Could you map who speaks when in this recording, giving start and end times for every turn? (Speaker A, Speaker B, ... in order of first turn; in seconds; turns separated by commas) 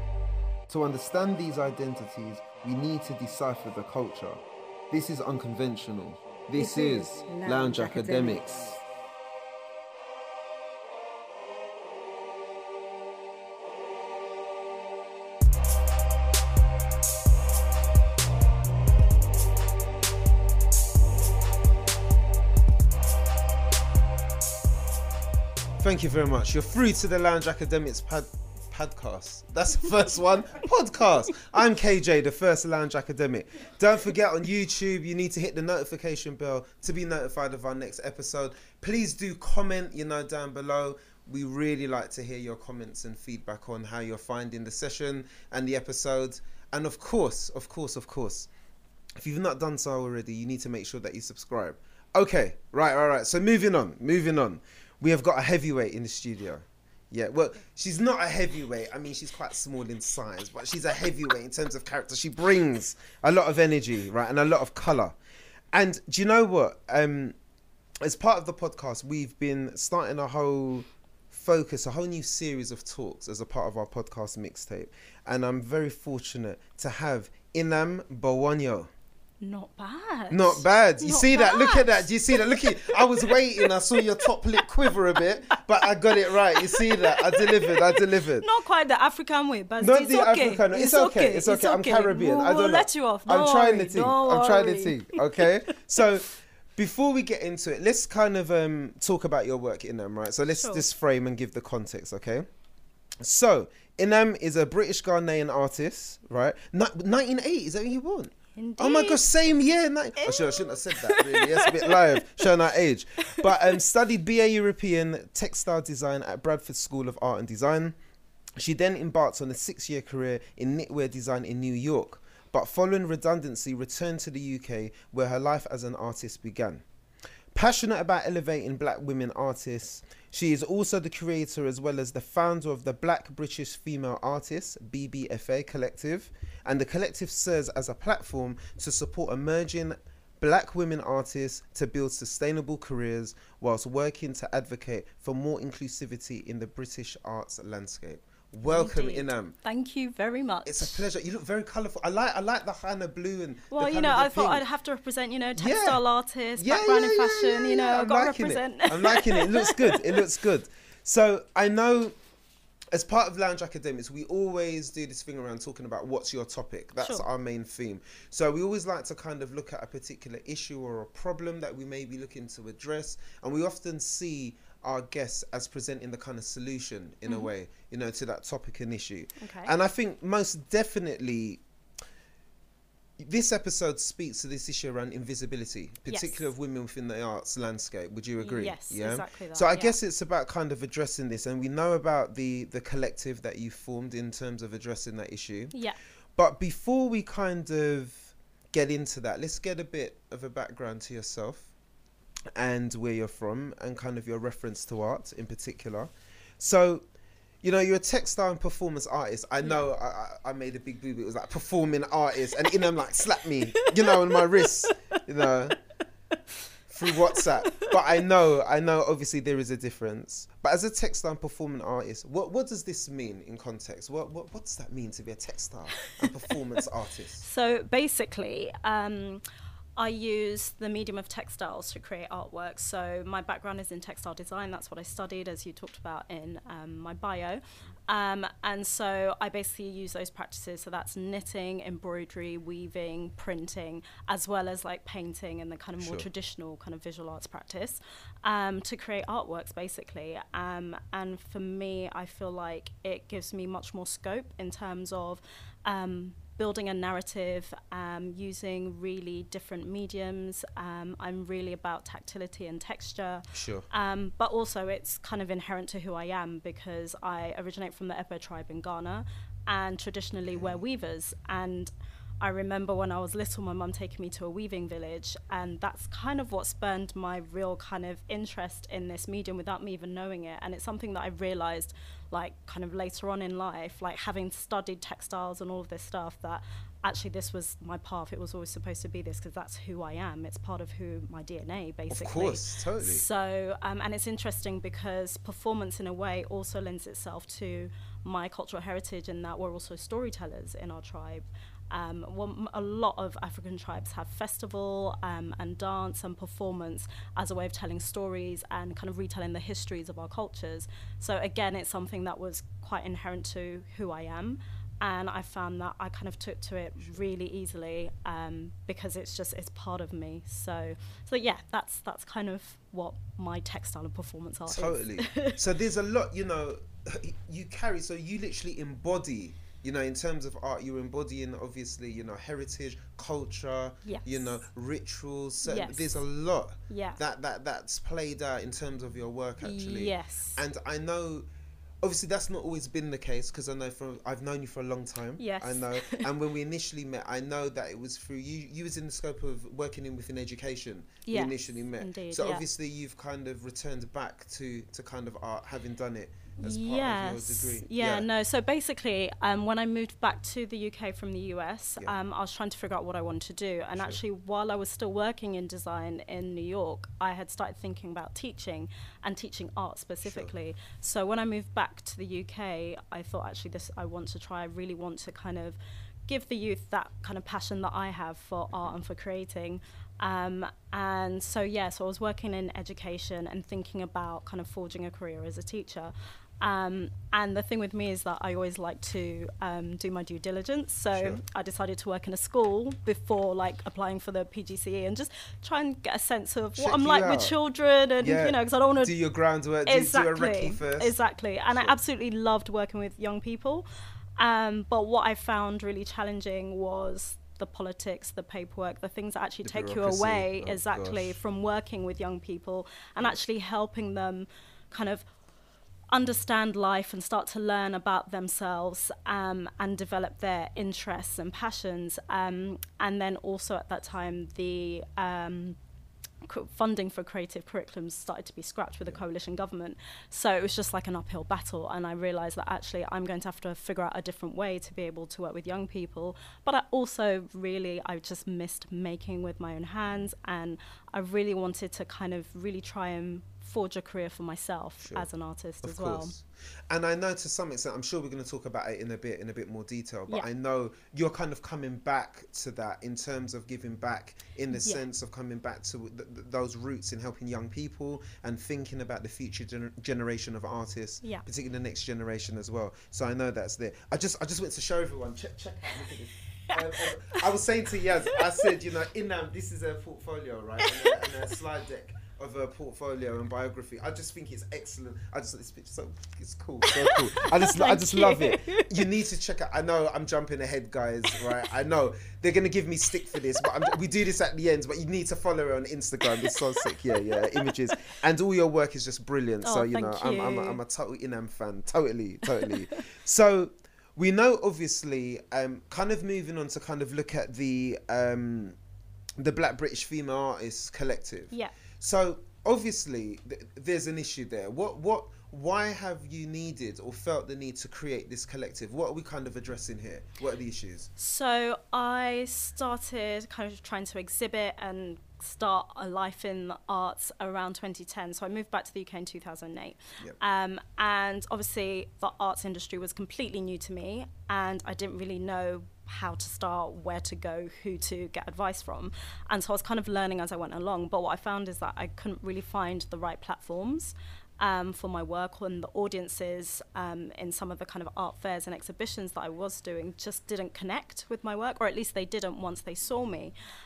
Speaker A: 0.7-8.5, Speaker B: 6.5-8.8, Speaker A: 25.8-48.5, Speaker A: 49.2-65.2, Speaker A: 65.7-67.3, Speaker A: 68.0-78.9, Speaker C: 79.4-84.3, Speaker A: 80.3-88.5, Speaker C: 86.3-96.0, Speaker A: 89.8-102.5, Speaker C: 100.5-100.8, Speaker A: 103.2-118.0, Speaker C: 108.5-109.2, Speaker C: 110.2-112.0, Speaker A: 118.6-126.8, Speaker A: 127.5-149.5, Speaker C: 148.7-151.0, Speaker A: 150.7-154.6, Speaker C: 153.7-160.2, Speaker A: 155.6-156.0, Speaker A: 156.6-162.1, Speaker A: 162.9-181.6, Speaker C: 177.2-177.5, Speaker C: 179.4-179.7, Speaker A: 183.2-195.7, Speaker C: 186.1-186.4, Speaker C: 188.4-189.9, Speaker A: 196.3-201.7, Speaker A: 202.6-207.0, Speaker A: 207.6-215.8, Speaker C: 213.7-215.1, Speaker A: 216.9-227.4, Speaker C: 217.1-217.9, Speaker C: 227.4-229.4, Speaker C: 230.0-325.6, Speaker A: 246.0-246.3, Speaker A: 263.5-263.9, Speaker A: 270.5-270.8, Speaker A: 292.1-293.2, Speaker A: 324.7-341.4, Speaker C: 334.0-334.5, Speaker C: 335.6-336.2, Speaker C: 336.9-337.2, Speaker C: 339.6-340.6, Speaker A: 342.0-358.2, Speaker C: 345.4-346.2, Speaker C: 351.3-352.6, Speaker C: 356.6-399.1, Speaker A: 370.2-370.5, Speaker A: 391.1-391.4, Speaker A: 396.8-397.5, Speaker A: 398.2-401.1, Speaker C: 399.9-403.8, Speaker C: 404.4-415.2, Speaker A: 409.6-411.4, Speaker C: 416.1-425.8, Speaker C: 426.4-446.3, Speaker A: 445.0-445.3, Speaker A: 445.8-498.8, Speaker C: 454.7-455.0, Speaker C: 470.8-471.3, Speaker C: 476.9-479.0, Speaker C: 487.3-487.7, Speaker C: 489.6-490.8, Speaker A: 499.4-511.1, Speaker C: 511.2-543.5